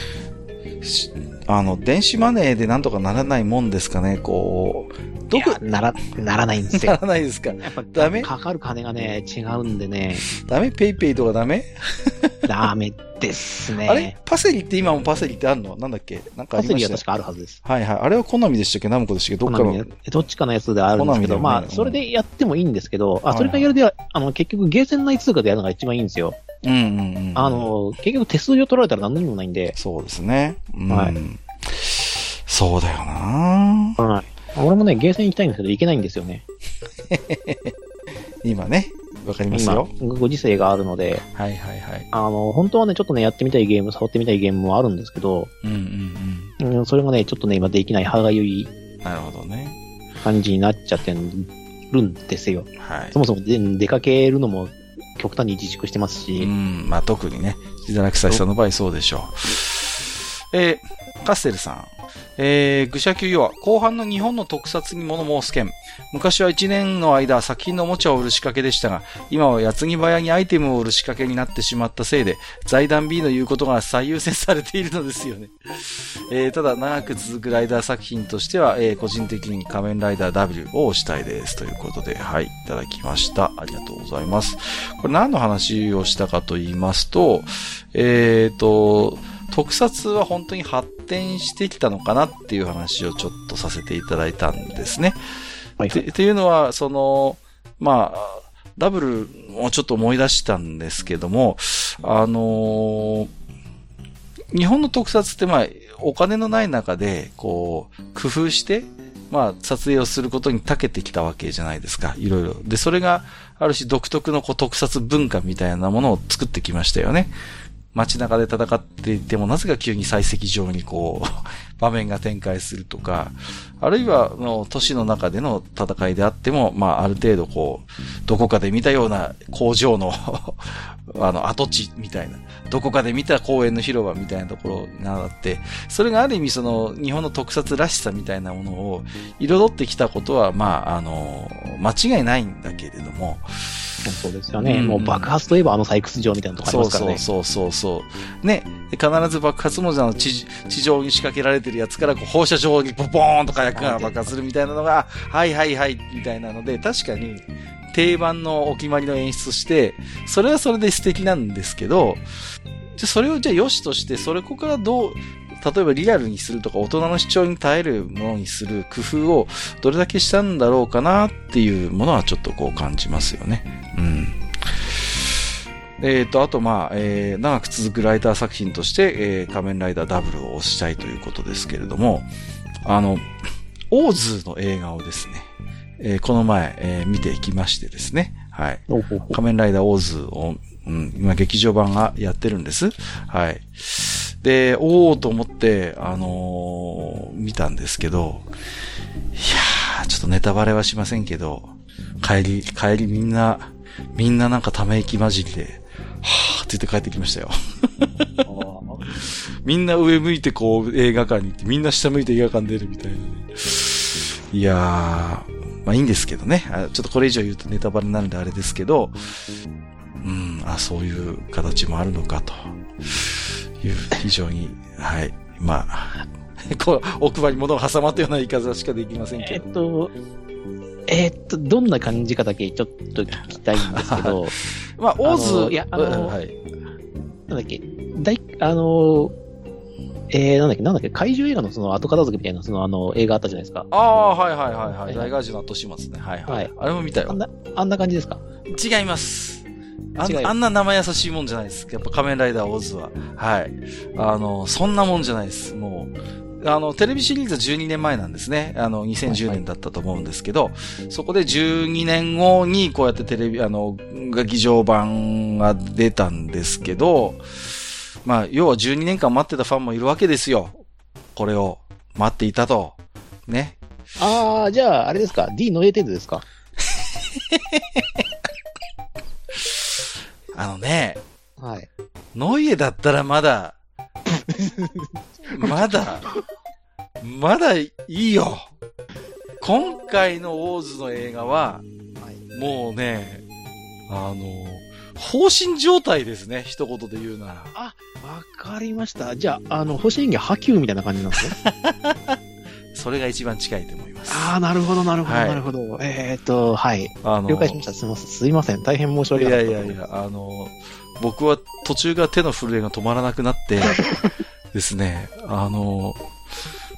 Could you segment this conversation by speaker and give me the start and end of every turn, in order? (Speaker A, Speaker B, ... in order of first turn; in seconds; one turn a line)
Speaker A: 0.8-5.6
Speaker B: 5.3-7.0
Speaker A: 6.7-8.3
Speaker B: 7.6-10.2
Speaker A: 10.2-12.5
Speaker B: 12.4-14.1
Speaker A: 13.8-17.0
Speaker B: 16.5-17.6
Speaker A: 17.6-19.9
Speaker B: 19.5-26.4
Speaker A: 20.9-22.0
Speaker A: 23.3-23.7
Speaker A: 26.6-27.7
Speaker B: 27.4-29.8
Speaker A: 29.8-34.0
Speaker B: 30.9-31.1
Speaker B: 34.0-36.4
Speaker A: 37.1-37.7
Speaker A: 38.4-39.9
Speaker B: 39.5-41.2
Speaker A: 41.2-42.1
Speaker B: 42.1-45.5
Speaker A: 45.6-46.5
Speaker B: 46.6-48.7
Speaker A: 49.0-49.8
Speaker B: 50.2-56.5
Speaker A: 52.8-53.1
Speaker A: 56.4-95.2
Speaker B: 95.8-96.1
Speaker A: 95.9-103.3
Speaker A: 104.5-117.3
Speaker A: 117.9-144.0
Speaker B: 144.0-147.2
Speaker A: 144.6-145.3
Speaker A: 146.6-162.2
Speaker B: 153.7-154.3
Speaker A: 163.0-175.2
Speaker A: 176.0-182.3
Speaker A: 182.8-183.3
Speaker A: 183.9-185.5
Speaker A: 186.0-198.5
Speaker B: 188.9-189.4
Speaker A: 199.3-208.3
Speaker B: 208.4-209.1
Speaker A: 209.1-219.2
Speaker A: 220.2-229.7
Speaker B: 229.4-230.1
Speaker B: 231.1-234.5
Speaker A: 233.9-236.6
Speaker B: 235.2-236.4
Speaker B: 237.5-239.3
Speaker B: 240.3-243.9
Speaker A: 243.9-247.4
Speaker B: 245.0-245.3
Speaker B: 246.5-246.7
Speaker B: 247.3-248.4
Speaker A: 248.7-249.7
Speaker B: 250.2-250.5
Speaker A: 250.2-267.4
Speaker B: 259.2-259.6
Speaker A: 268.2-270.8
Speaker A: 271.3-273.8
Speaker B: 274.2-276.4
Speaker A: 277.0-278.2
Speaker A: 279.5-280.0
Speaker A: 280.5-281.2
Speaker B: 281.6-281.9
Speaker A: 282.3-283.8
Speaker B: 284.3-286.1
Speaker A: 285.5-286.3
Speaker A: 287.2-288.7
Speaker A: 289.6-291.8
Speaker B: 292.2-292.4
Speaker A: 292.5-293.4
Speaker A: 294.1-297.7
Speaker B: 297.7-301.5
Speaker A: 301.5-302.4
Speaker A: 302.9-304.6
Speaker B: 304.3-310.0
Speaker A: 305.2-305.6
Speaker A: 307.2-307.8
Speaker A: 309.3-314.0
Speaker A: 314.7-316.2